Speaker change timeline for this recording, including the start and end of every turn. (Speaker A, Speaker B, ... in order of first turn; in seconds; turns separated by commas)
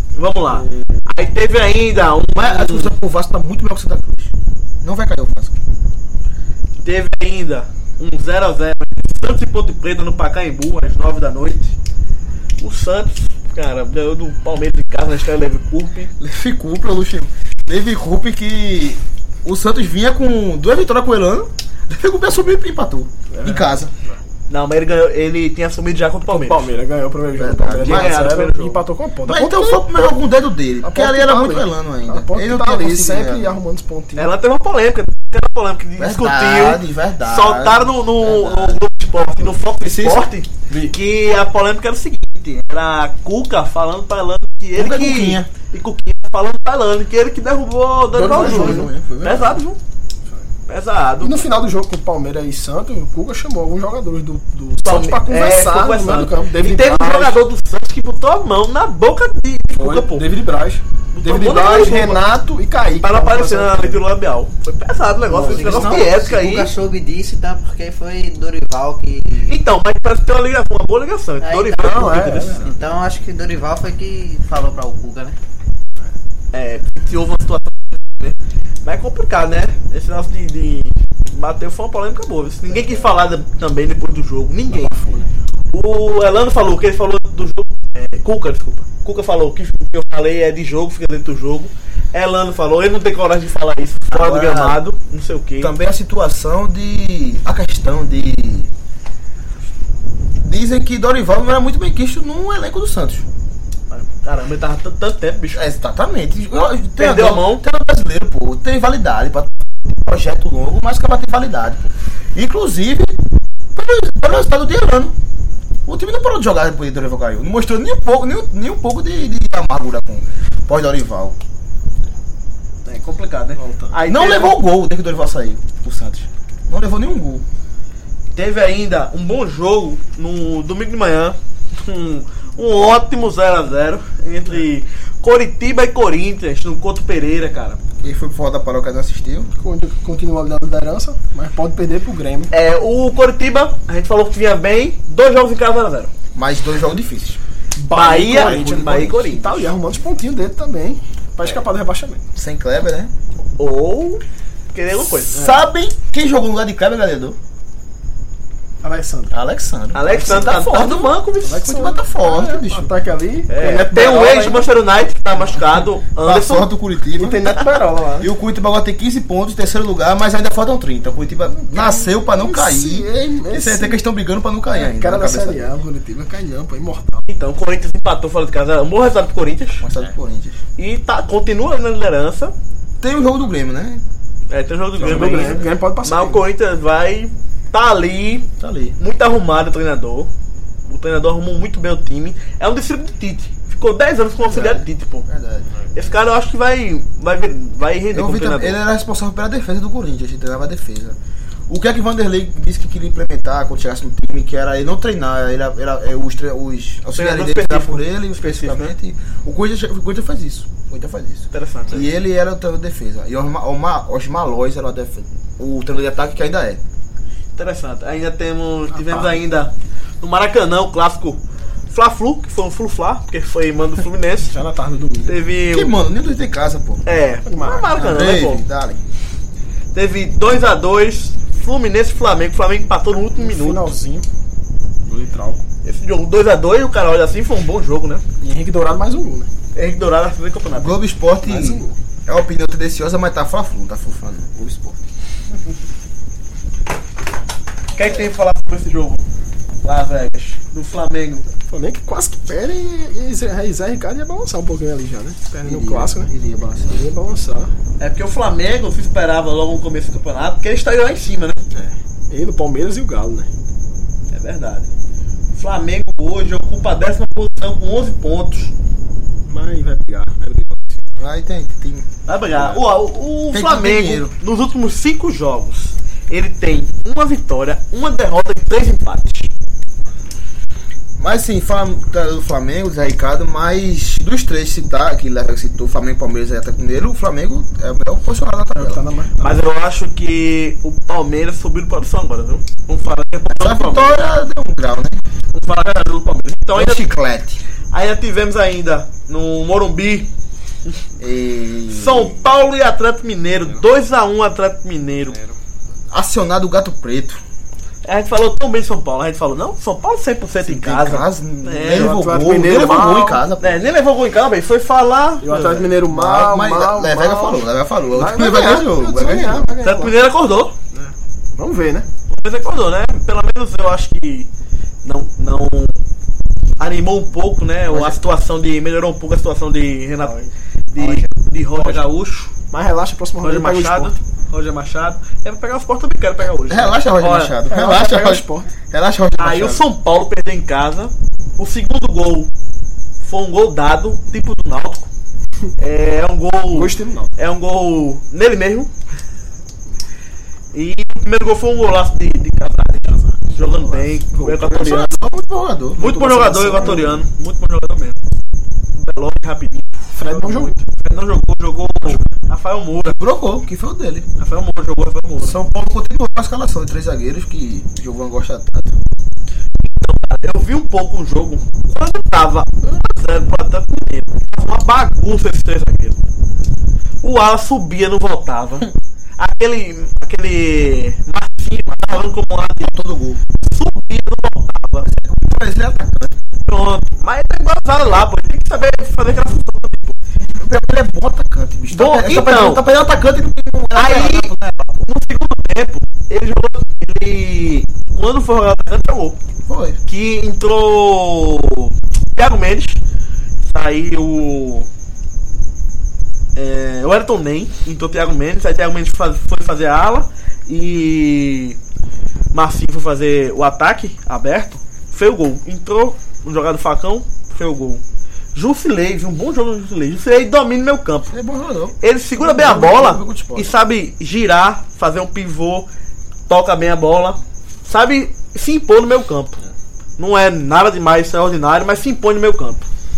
Speaker A: 0.1-2.9, Speaker B: 2.3-5.6, Speaker A: 6.8-11.8, Speaker A: 12.6-16.1, Speaker B: 16.2-23.9, Speaker C: 23.3-24.2, Speaker A: 24.5-26.7, Speaker C: 26.3-29.9, Speaker B: 27.4-28.2, Speaker A: 27.8-28.8, Speaker B: 29.3-33.5, Speaker C: 30.8-34.3, Speaker A: 34.1-49.8, Speaker B: 36.0-38.8, Speaker B: 39.8-40.3, Speaker C: 40.7-40.9, Speaker B: 44.7-45.5, Speaker C: 48.1-49.5, Speaker B: 48.2-49.5, Speaker A: 50.7-51.4, Speaker C: 51.2-57.5, Speaker A: 54.8-60.3, Speaker C: 59.8-64.0, Speaker A: 61.1-62.2, Speaker A: 63.0-66.7, Speaker C: 65.3-66.0, Speaker D: 65.3-69.6, Speaker A: 69.5-72.7, Speaker D: 71.4-75.4, Speaker C: 71.8-72.8, Speaker A: 76.5-85.0, Speaker C: 84.7-85.3, Speaker A: 85.7-95.7, Speaker B: 94.1-94.8, Speaker B: 95.6-98.7, Speaker B: 100.3-103.2, Speaker A: 103.9-105.6, Speaker B: 105.5-111.8, Speaker A: 107.0-107.6, Speaker B: 112.3-113.2, Speaker B: 113.7-115.1, Speaker B: 115.8-121.4, Speaker A: 122.8-124.6, Speaker C: 123.6-124.0, Speaker B: 124.1-127.4, Speaker A: 128.3-137.8, Speaker B: 138.0-139.5, Speaker C: 139.6-142.5, Speaker A: 142.5-146.1, Speaker B: 146.3-147.4, Speaker C: 147.8-152.2, Speaker A: 147.9-149.7, Speaker B: 148.0-149.2, Speaker B: 152.3-153.1, Speaker A: 153.6-155.4, Speaker B: 155.3-157.4, Speaker C: 155.3-155.6, Speaker C: 158.8-159.3, Speaker B: 159.3-162.9, Speaker A: 159.9-161.6, Speaker C: 160.0-160.6, Speaker C: 161.4-164.7, Speaker A: 163.5-166.7, Speaker B: 166.2-167.6, Speaker C: 167.1-168.3, Speaker B: 168.2-175.7, Speaker C: 171.5-174.0, Speaker C: 174.7-177.2, Speaker A: 177.3-179.8, Speaker B: 179.8-180.6, Speaker A: 180.8-182.5, Speaker B: 183.0-184.0, Speaker A: 184.5-188.5, Speaker C: 185.0-186.4, Speaker B: 185.1-185.3, Speaker B: 188.6-189.0, Speaker A: 189.0-190.3, Speaker A: 190.9-195.3, Speaker B: 194.4-196.1, Speaker A: 195.9-198.8, Speaker B: 198.1-201.2, Speaker B: 201.7-216.8, Speaker A: 207.2-208.9, Speaker A: 211.5-212.1, Speaker A: 217.6-221.4, Speaker C: 218.9-219.4, Speaker A: 221.9-224.5, Speaker C: 224.4-225.3, Speaker A: 225.2-225.9, Speaker B: 225.7-227.0, Speaker A: 227.1-228.6, Speaker C: 227.4-227.9, Speaker B: 227.9-229.0, Speaker A: 229.9-233.9, Speaker C: 233.3-234.3, Speaker C: 235.1-235.6, Speaker A: 235.8-238.2, Speaker C: 238.4-239.5, Speaker A: 239.7-241.0, Speaker B: 240.7-245.0, Speaker C: 241.4-241.9, Speaker A: 247.9-249.2, Speaker B: 248.0-248.3, Speaker A: 249.8-251.5, Speaker C: 251.7-256.3, Speaker B: 255.6-257.0, Speaker C: 256.9-257.7, Speaker A: 258.0-261.6, Speaker C: 261.7-263.5, Speaker A: 264.3-264.9, Speaker A: 265.5-268.7, Speaker C: 269.4-271.0, Speaker B: 271.2-272.8, Speaker A: 272.2-279.5, Speaker B: 273.5-274.3, Speaker B: 281.2-289.0, Speaker C: 288.8-289.4, Speaker A: 289.4-294.2, Speaker B: 293.5-295.2, Speaker A: 295.5-297.1, Speaker B: 296.7-297.6, Speaker A: 297.9-300.3, Speaker B: 301.2-302.4, Speaker A: 301.9-305.4, Speaker B: 306.1-307.4, Speaker A: 308.0-312.6, Speaker B: 310.6-313.9, Speaker C: 311.9-313.4, Speaker A: 313.6-315.9, Speaker C: 315.4-320.1, Speaker B: 316.1-319.7, Speaker A: 319.8-320.7, Speaker C: 320.9-322.1, Speaker A: 322.3-324.5, Speaker A: 325.0-326.0, Speaker A: 326.8-332.5, Speaker B: 327.9-328.2, Speaker D: 331.0-331.3, Speaker C: 331.7-332.1, Speaker C: 332.7-334.1, Speaker A: 333.4-337.5, Speaker B: 336.7-339.8, Speaker C: 337.6-338.7, Speaker A: 339.4-342.5, Speaker A: 343.2-345.1, Speaker A: 345.8-348.9, Speaker C: 346.7-347.3, Speaker A: 350.7-355.1, Speaker C: 353.2-355.1, Speaker B: 354.7-356.0, Speaker C: 356.0-357.2, Speaker A: 356.0-358.2, Speaker B: 356.7-357.2, Speaker A: 358.9-363.2, Speaker C: 360.1-360.8, Speaker B: 363.0-364.3, Speaker A: 364.4-365.6, Speaker B: 365.4-369.0, Speaker A: 369.8-376.2, Speaker A: 377.2-382.9, Speaker B: 382.8-383.4, Speaker A: 383.6-385.1, Speaker B: 385.0-386.4, Speaker A: 386.6-390.2, Speaker B: 390.4-395.1, Speaker A: 391.9-392.9, Speaker A: 393.9-399.4, Speaker B: 399.6-400.0, Speaker A: 400.1-403.0, Speaker A: 403.6-404.9, Speaker A: 406.5-411.8, Speaker A: 412.5-418.0, Speaker A: 418.5-421.3, Speaker B: 421.3-423.8, Speaker A: 422.0-425.9, Speaker A: 426.5-429.6, Speaker A: 430.2-432.9